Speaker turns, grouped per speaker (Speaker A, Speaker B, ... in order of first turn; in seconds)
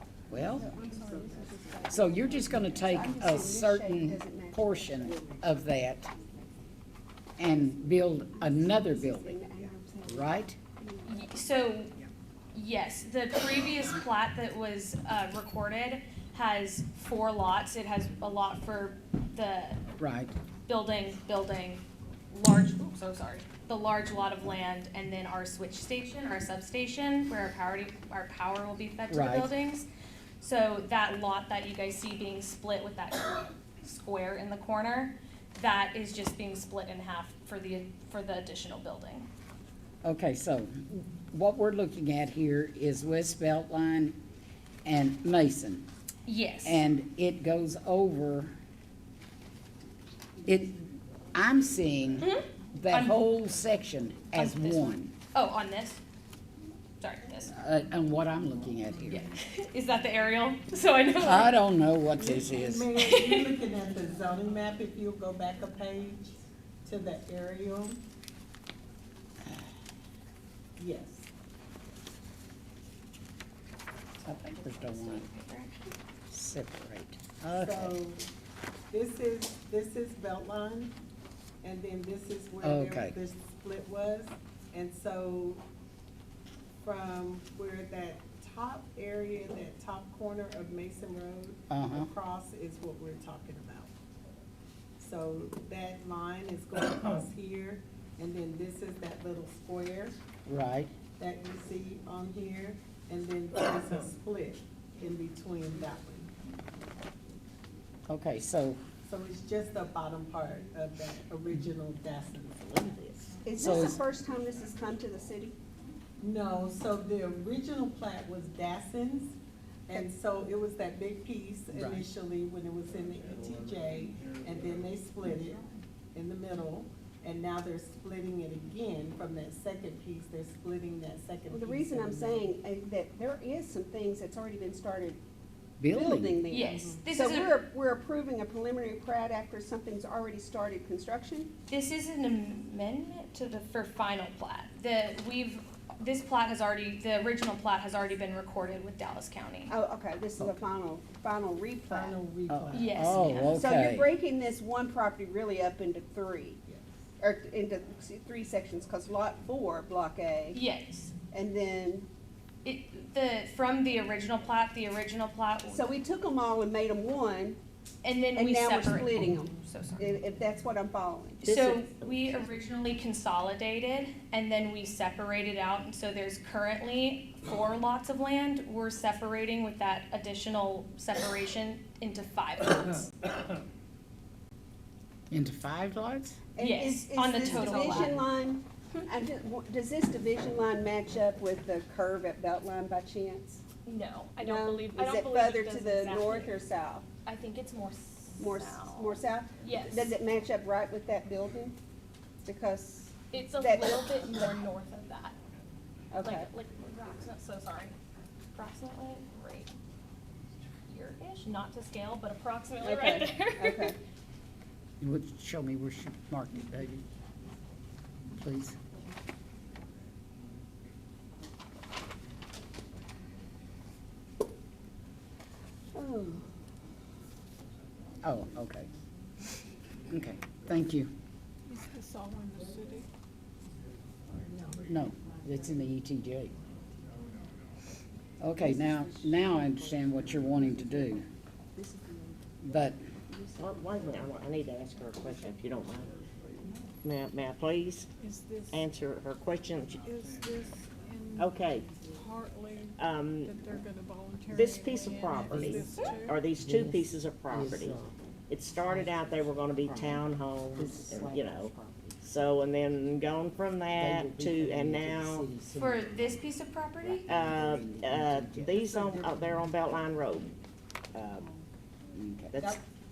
Speaker A: 0.3-0.7, 1.9-6.1, 7.4-9.4, 10.0-10.6, 20.0-20.3, 29.1-29.5, 40.0-44.2, 44.8-45.9, 46.6-48.5, 50.4-55.1, 57.5-59.2, 61.2-62.9, 74.2-75.2, 76.3-78.0, 82.6-83.2, 91.7-92.1, 100.5-100.9, 108.1-108.8, 113.6-114.0, 121.7-122.0, 135.8-136.4, 152.5-154.1, 185.3-186.4, 215.0-217.0, 218.4-218.8, 228.2-228.9, 230.1-231.1, 234.9-236.5, 238.4-241.2, 242.6-243.0, 255.4-255.9, 256.6-258.1, 258.8-262.2, 263.9-266.4, 267.0-269.0, 272.1-272.7
Speaker B: 0.5-5.1, 8.3-11.1, 113.4-115.5, 131.5-135.2, 135.9-141.5, 149.7-152.2, 153.5-156.6, 157.2-160.6, 161.3-162.1, 165.7-167.6, 168.3-171.4, 186.6-193.6, 194.4-197.1, 198.4-201.8, 202.4-204.2, 206.1-206.5, 212.8-213.9, 225.9-226.4, 238.6-239.6, 241.8-242.4, 243.3-243.6
Speaker C: 11.0-11.9, 12.5-19.8, 20.7-29.9, 30.4-39.3, 46.2-46.8, 52.2-53.2, 54.3-56.0, 57.0-57.5, 59.1-61.5, 63.0-63.5, 74.2-75.9, 136.5-137.5, 141.7-149.7, 152.7-153.6, 160.5-161.1, 162.6-165.9, 168.0-170.1, 171.4-183.1, 186.6-188.2, 193.8-196.5, 197.2-200.1, 203.3-205.4, 206.2-207.9, 208.5-209.8, 210.9-213.9, 265.8-267.2
Speaker D: 62.1-68.0, 70.8-71.3, 77.5-78.3, 78.9-80.9, 81.6-85.6, 86.8-93.9, 95.0-100.2, 101.2-106.3, 109.0-113.2, 116.2-132.5, 136.7-137.0, 151.9-153.4, 234.4-234.8, 268.8-269.6
Speaker E: 112.9-113.2, 171.4-172.4, 243.6-246.2, 247.0-248.1, 248.7-250.1, 251.4-251.9, 253.0-253.6, 254.5-265.5, 267.3-270.5, 271.1-271.5, 272.5-272.8
Speaker F: 231.7-233.1, 248.2-248.8, 250.0-251.5, 252.1-256.4